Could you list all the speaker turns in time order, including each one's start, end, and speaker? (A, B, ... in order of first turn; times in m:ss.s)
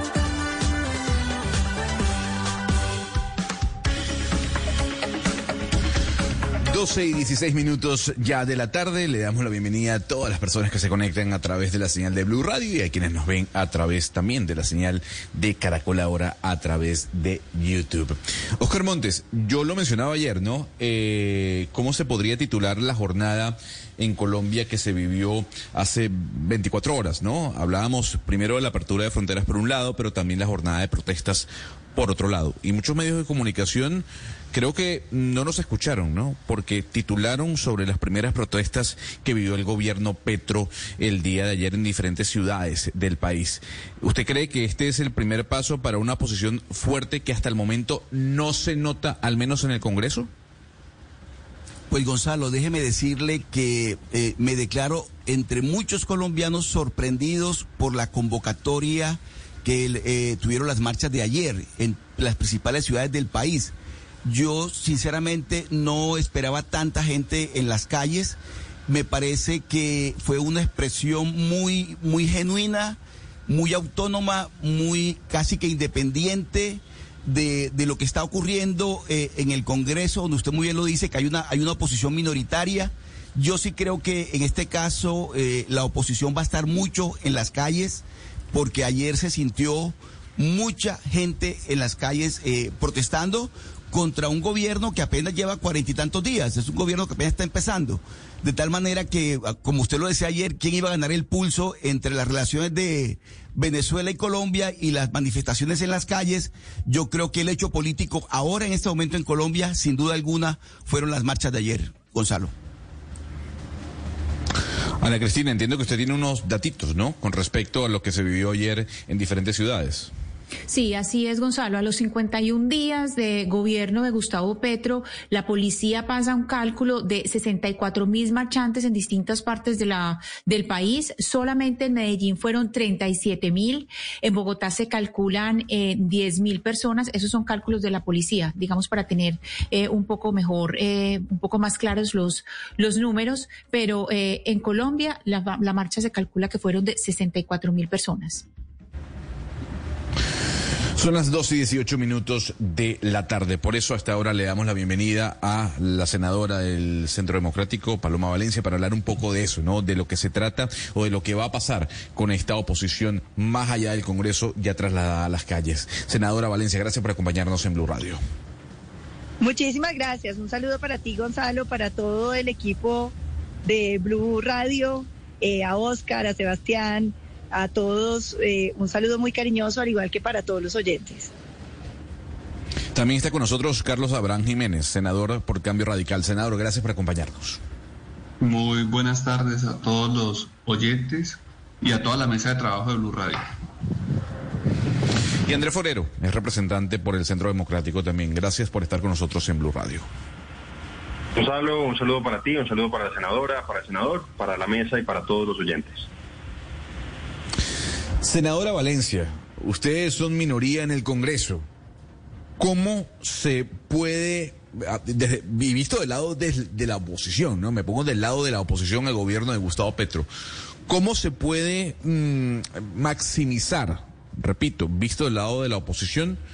0:06.7-0:50.3 A
0:51.9-1:52.5 B
1:55.0-2:00.1 A
2:00.7-2:28.4 C
2:31.0-2:48.2 A
2:49.4-2:53.1 D
2:53.6-3:01.3 D
3:02.9-3:07.6 A
3:08.4-3:13.5 E
3:15.4-3:20.1 A
3:21.4-3:26.1 F
3:28.2-3:31.6 A
3:32.6-3:40.3 A
3:40.9-3:46.4 A